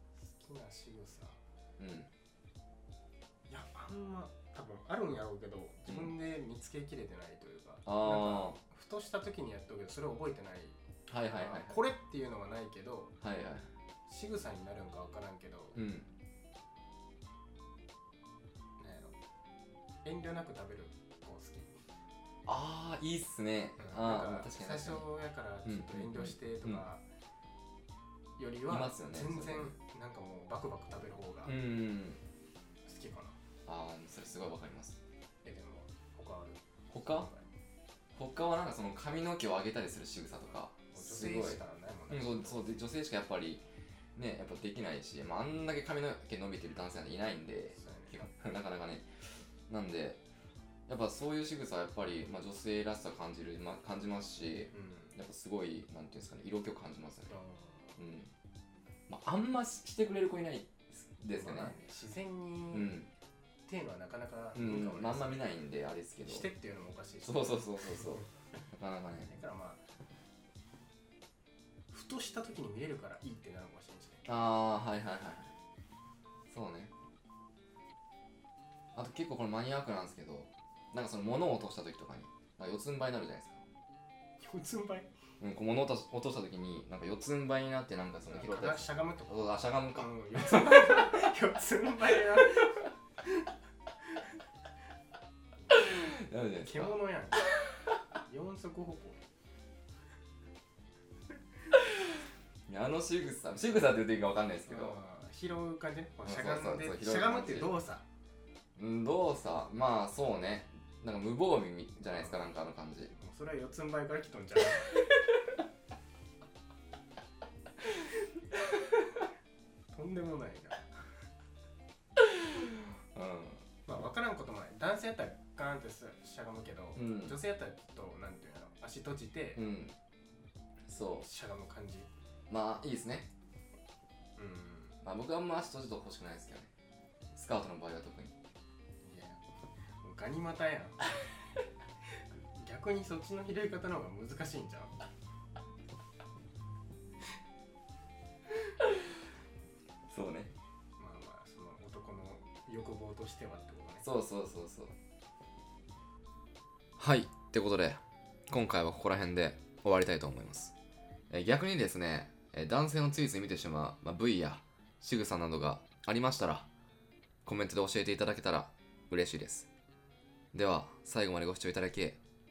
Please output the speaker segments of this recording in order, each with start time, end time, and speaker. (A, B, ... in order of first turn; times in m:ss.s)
0:00.2-0:01.4 A
0:01.8-0:02.1 B
0:03.5-0:13.1 A
0:07.8-0:08.6 B
0:11.1-0:11.8 B
0:13.2-0:13.7 B
0:14.1-0:15.8 A
0:15.8-0:16.1 B
0:18.8-0:19.2 A
0:20.0-0:21.8 A
0:22.5-0:25.1 B
0:23.8-0:27.0 A
0:25.6-0:26.8 B
0:28.4-0:31.5 A
0:28.7-0:29.7 B
0:31.5-0:32.2 B
0:32.8-0:33.4 A
0:33.7-0:35.0 B
0:35.4-0:37.5 A
0:36.9-0:37.3 B
0:38.2-0:43.6 B
0:40.9-0:42.7 A
0:44.2-0:49.1 B
0:47.7-0:48.3 A
0:49.7-0:50.2 B
0:50.9-0:57.3 B
0:54.7-0:55.2 A
0:57.3-0:58.0 A
0:58.0-0:58.3 B
0:59.1-1:01.8 B
1:01.3-1:03.0 A
1:02.7-1:03.1 B
1:03.7-1:05.5 A
1:04.5-1:06.5 B
1:06.3-1:08.3 A
1:07.2-1:08.3 B
1:08.8-1:09.3 B
1:09.2-1:09.8 A
1:11.9-1:14.2 A
1:14.2-1:15.5 B
1:16.5-1:16.9 B
1:18.9-1:23.6 B
1:24.4-1:25.1 A
1:25.4-1:31.3 B
1:28.3-1:33.4 A
1:35.7-1:37.0 B
1:36.6-1:37.6 A
1:38.2-1:39.2 A
1:42.7-1:45.0 B
1:44.7-1:48.0 A
1:46.2-1:47.8 B
1:48.8-1:53.1 B
1:52.2-1:52.4 A
1:53.1-1:55.0 A
1:59.9-2:01.0 A
2:03.1-2:03.6 B
2:03.9-2:09.6 A
2:07.0-2:07.4 B
2:09.6-2:09.9 B
2:10.9-2:11.3 B
2:11.2-2:12.1 A
2:12.5-2:13.3 B
2:14.4-2:15.0 A
2:15.0-2:16.7 B
2:17.3-2:18.3 B
2:19.0-2:19.4 A
2:20.0-2:21.0 A
2:22.6-2:24.9 A
2:30.1-2:30.5 B
2:31.0-2:34.0 A
2:34.0-2:34.9 B
2:37.0-2:40.7 B
2:41.3-2:46.7 B
2:47.5-2:49.7 B
2:50.5-2:52.2 B